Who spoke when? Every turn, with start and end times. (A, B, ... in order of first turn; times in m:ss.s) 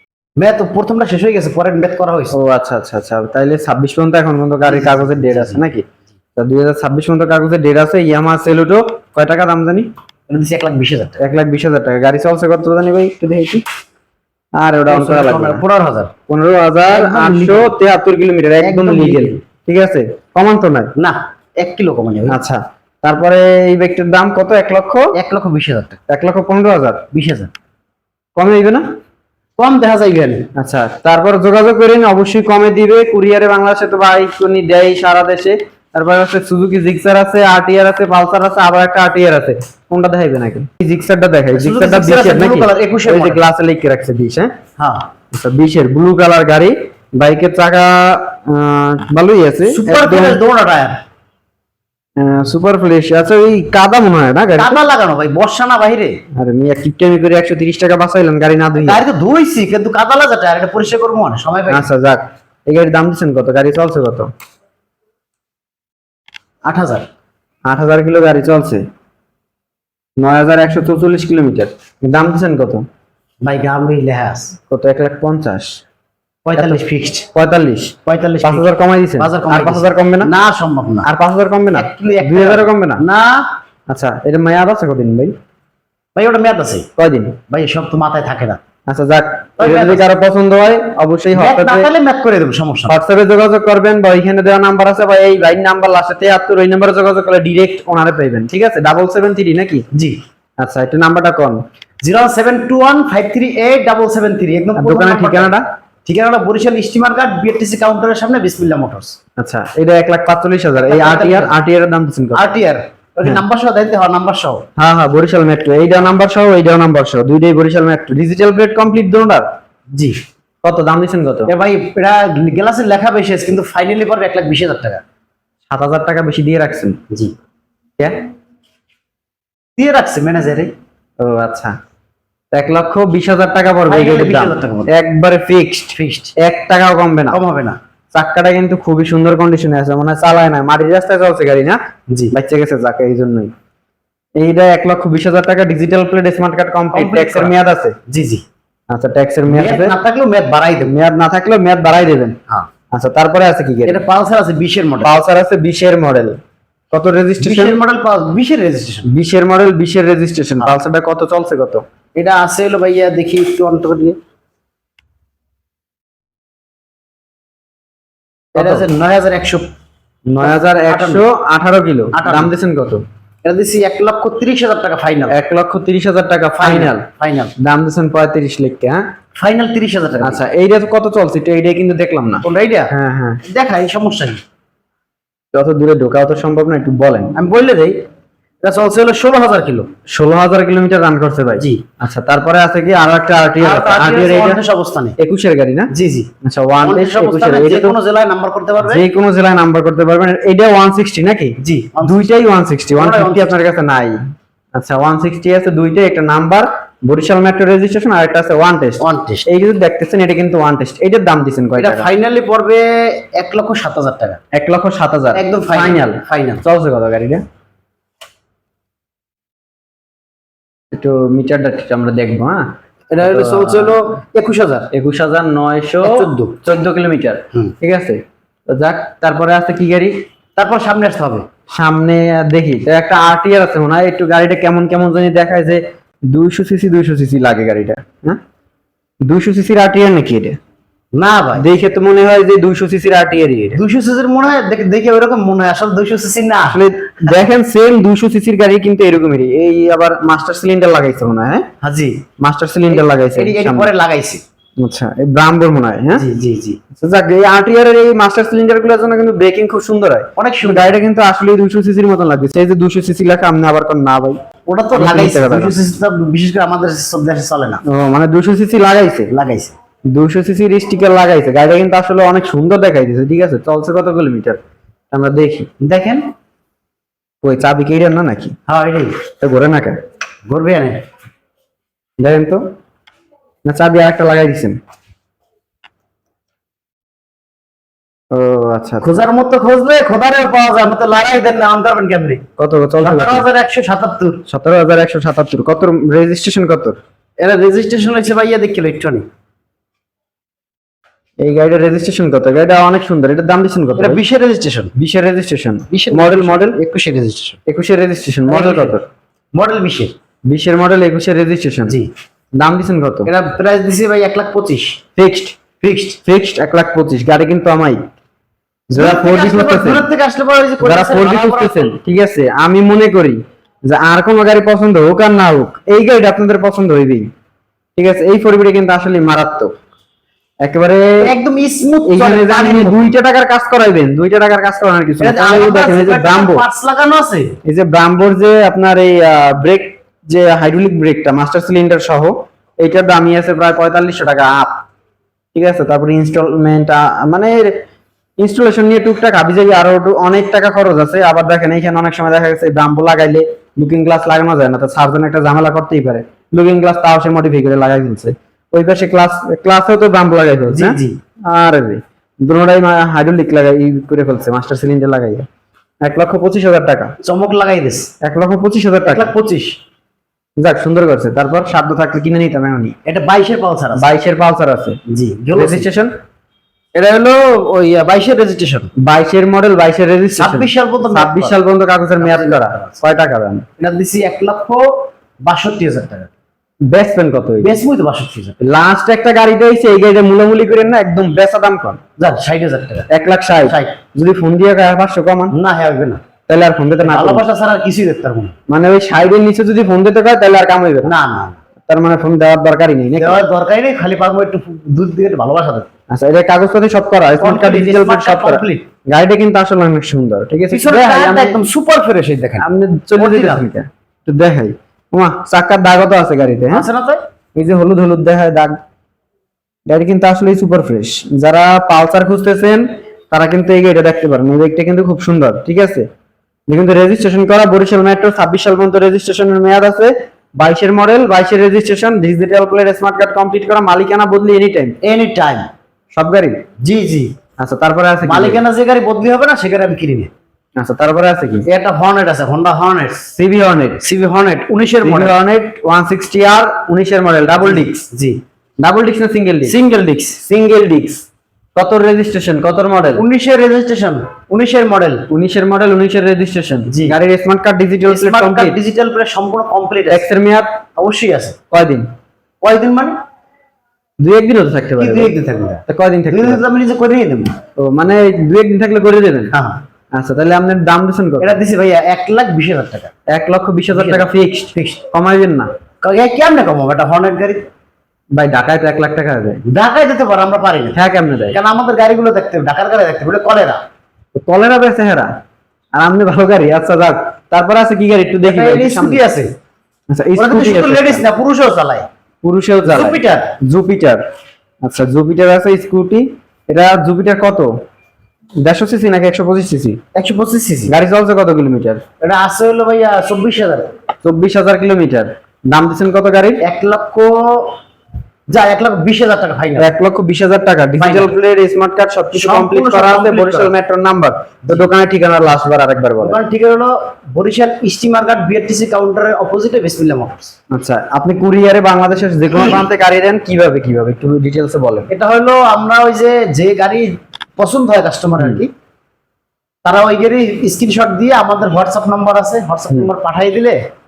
0:00.4-0:02.4 A
0:02.3-0:05.8 B
0:04.6-0:05.7 A
0:06.4-0:09.9 B
0:10.3-0:11.2 A
0:11.2-0:13.6 B
0:14.6-0:15.6 B
0:14.9-0:16.1 A
0:16.3-0:20.9 B
0:16.9-0:17.8 A
0:18.6-0:19.4 A
0:21.0-0:22.4 A
0:22.3-0:25.1 B
0:25.2-0:26.0 A
0:26.1-0:27.0 B
0:27.1-0:27.5 A
0:28.4-0:28.8 B
0:29.6-0:30.5 A
0:30.6-0:44.5 B
0:41.5-0:43.4 A
0:44.8-0:45.1 A
0:45.3-0:50.4 B
0:49.7-0:51.0 A
0:52.2-0:54.8 B
0:54.6-0:56.2 A
0:56.4-0:59.0 B
0:58.8-1:01.9 A
1:01.7-1:04.3 B
1:06.6-1:07.1 A
1:07.7-1:08.8 B
1:10.2-1:12.9 B
1:13.4-1:14.5 A
1:14.7-1:15.8 B
1:16.4-1:17.3 A
1:16.6-1:16.8 B
1:17.3-1:20.3 B
1:18.1-1:21.1 A
1:21.0-1:23.0 B
1:21.7-1:23.5 A
1:23.9-1:25.3 B
1:26.2-1:26.9 A
1:27.0-1:27.4 B
1:27.5-1:28.6 A
1:28.9-1:31.9 B
1:29.6-1:30.1 A
1:31.3-1:33.0 A
1:32.9-1:39.8 B
1:39.9-1:40.2 A
1:40.6-1:41.6 B
1:42.0-1:45.6 A
1:44.8-1:45.7 B
1:46.1-1:49.2 A
1:49.4-1:52.5 B
1:50.8-1:51.6 A
1:52.3-1:54.6 A
1:54.8-1:59.5 B
2:00.6-2:01.5 B
2:01.5-2:05.0 A
2:05.7-2:07.0 B
2:09.8-2:10.7 A
2:11.2-2:11.7 B
2:12.5-2:17.4 B
2:13.9-2:14.9 A
2:16.0-2:16.3 A
2:17.3-2:17.8 A
2:18.1-2:21.8 B
2:22.3-2:23.5 B
2:24.4-2:28.0 B
2:26.9-2:27.5 A
2:28.1-2:28.4 A
2:28.9-2:29.9 B
2:29.5-2:30.9 A
2:30.9-2:32.4 B
2:32.9-2:34.0 B
2:33.9-2:35.2 A
2:35.0-2:36.4 B
2:36.9-2:37.8 B
2:37.4-2:39.1 A
2:39.1-2:41.8 B
2:42.2-2:44.2 A
2:48.5-2:49.7 A
2:48.6-2:48.8 B
2:50.3-2:51.2 A
2:50.4-2:53.0 B
2:52.1-2:52.5 A
2:53.4-2:55.4 A
2:55.3-2:57.1 B
2:56.6-2:57.5 A
2:57.6-2:59.0 B
2:59.4-3:00.4 A
3:00.2-3:03.4 B
3:02.4-3:02.9 A
3:03.4-3:04.4 A
3:05.5-3:07.4 B
3:07.4-3:08.0 A
3:08.6-3:09.9 A
3:10.1-3:14.6 B
3:11.6-3:11.8 A
3:13.6-3:15.2 A
3:15.2-3:15.9 B
3:15.9-3:16.3 A
3:16.4-3:18.0 B
3:16.8-3:19.0 A
3:18.8-3:24.2 B
3:21.6-3:22.3 A
3:23.0-3:23.6 A
3:24.8-3:32.1 B
3:29.0-3:29.5 A
3:31.8-3:34.4 A
3:34.5-3:37.4 B
3:35.3-3:36.6 A
3:40.9-3:44.0 B
3:43.1-3:44.9 A
3:44.9-3:50.2 B
3:46.0-3:46.6 A
3:50.6-3:51.5 A
3:51.7-3:58.4 B
3:59.3-4:00.6 B
4:01.2-4:01.7 A
4:01.6-4:03.8 B
4:03.8-4:07.4 A
4:06.6-4:11.7 B
4:11.8-4:12.2 A
4:12.4-4:13.9 B
4:12.9-4:14.4 A
4:14.8-4:16.2 B
4:16.1-4:16.8 A
4:17.0-4:24.4 B
4:20.4-4:21.0 A
4:24.7-4:27.8 A
4:25.0-4:25.8 B
4:27.9-4:29.3 B
4:29.3-4:29.7 A
4:30.1-4:34.6 B
4:35.1-4:35.7 B
4:35.8-4:36.3 A
4:37.4-4:38.6 B
4:38.7-4:39.2 A
4:39.4-4:40.0 B
4:40.5-4:41.0 A
4:42.2-4:42.6 B
4:43.6-4:44.8 B
4:48.3-4:49.2 B
4:49.0-4:52.4 A
4:52.6-4:53.4 B
4:53.0-4:54.4 A
4:54.5-4:57.0 B
4:57.4-4:59.2 A
5:01.4-5:04.2 B
5:04.0-5:04.9 A
5:05.0-5:06.8 B
5:05.9-5:07.6 A
5:07.7-5:09.0 B
5:08.5-5:09.0 A
5:09.6-5:10.1 A
5:10.5-5:12.0 B
5:12.6-5:13.3 B
5:13.2-5:15.0 A
5:15.2-5:15.6 B
5:15.8-5:16.2 A
5:16.2-5:18.0 B
5:18.9-5:20.0 B
5:19.0-5:22.0 A
5:20.8-5:27.3 B
5:28.0-5:29.7 B
5:30.6-5:31.3 B
5:31.2-5:33.1 A
5:32.1-5:36.6 B
5:35.2-5:37.5 A
5:37.6-5:44.8 B
5:45.6-5:47.8 B
5:48.4-6:05.5 B
6:00.7-6:01.2 A
6:06.0-6:07.1 B
6:07.2-6:08.1 A
6:08.2-6:09.3 B
6:09.0-6:09.8 A
6:10.6-6:13.0 B
6:13.0-6:14.1 A
6:14.0-6:15.0 B
6:15.1-6:15.9 A
6:15.6-6:16.1 B
6:16.9-6:18.9 A
6:19.0-6:23.6 B
6:20.3-6:21.6 A
6:22.2-6:23.0 A
6:23.8-6:26.3 A
6:26.9-6:27.8 B
6:27.6-6:28.6 A
6:28.6-6:32.0 B
6:32.2-6:33.1 A
6:33.1-6:35.5 B
6:33.7-6:34.0 A
6:35.5-6:36.2 A
6:36.5-6:37.4 B
6:37.0-6:38.6 A
6:38.7-6:41.1 B
6:41.0-6:41.6 A
6:41.9-6:43.4 B
6:43.2-6:45.9 A
6:46.1-6:51.6 B
6:47.4-6:48.9 A
6:50.7-6:53.7 A
6:52.6-6:56.9 B
6:56.7-6:57.2 A
6:57.6-6:58.8 B
6:59.9-7:06.1 B
7:06.7-7:15.0 B
7:15.0-7:15.7 A
7:16.2-7:16.6 B
7:16.8-7:17.3 A
7:17.6-7:18.6 B
7:18.2-7:20.3 A
7:20.8-7:21.7 B
7:21.7-7:23.2 A
7:23.3-7:24.0 B
7:24.0-7:25.4 A
7:25.0-7:28.0 B
7:27.7-7:28.4 A
7:28.8-7:29.8 B
7:29.7-7:30.4 A
7:30.4-7:31.2 B
7:31.8-7:33.2 B
7:33.2-7:35.3 A
7:35.3-7:38.8 B
7:36.9-7:37.2 A
7:38.1-7:40.3 A
7:40.1-7:40.8 B
7:41.0-7:41.6 A
7:41.7-7:42.1 B
7:42.6-7:43.2 A
7:44.2-7:45.3 B
7:45.0-7:47.6 A
7:45.9-7:46.6 B
7:47.8-7:49.6 B
7:49.5-7:49.8 A
7:50.1-7:51.6 B
7:51.4-7:53.1 A
7:53.3-7:55.7 B
7:53.9-7:55.0 A
7:56.0-7:57.7 A
7:58.4-7:59.6 B
7:59.6-8:01.0 A
8:01.0-8:01.6 B
8:01.5-8:03.8 A
8:04.4-8:05.3 B
8:06.0-8:09.2 B
8:08.4-8:09.5 A
8:10.1-8:11.2 B
8:10.4-8:12.1 A
8:12.4-8:14.2 B
8:12.9-8:13.5 A
8:14.8-8:17.8 B
8:18.6-8:20.0 B
8:20.1-8:20.9 A
8:20.9-8:22.0 B
8:22.2-8:23.9 A
8:24.2-8:26.6 B
8:26.6-8:27.8 A
8:28.5-8:29.9 A
8:29.8-8:36.4 B
8:31.0-8:31.4 A
8:32.3-8:33.7 A
8:36.2-8:40.5 A
8:40.7-8:45.1 B
8:45.1-8:48.7 A
8:49.8-8:53.8 A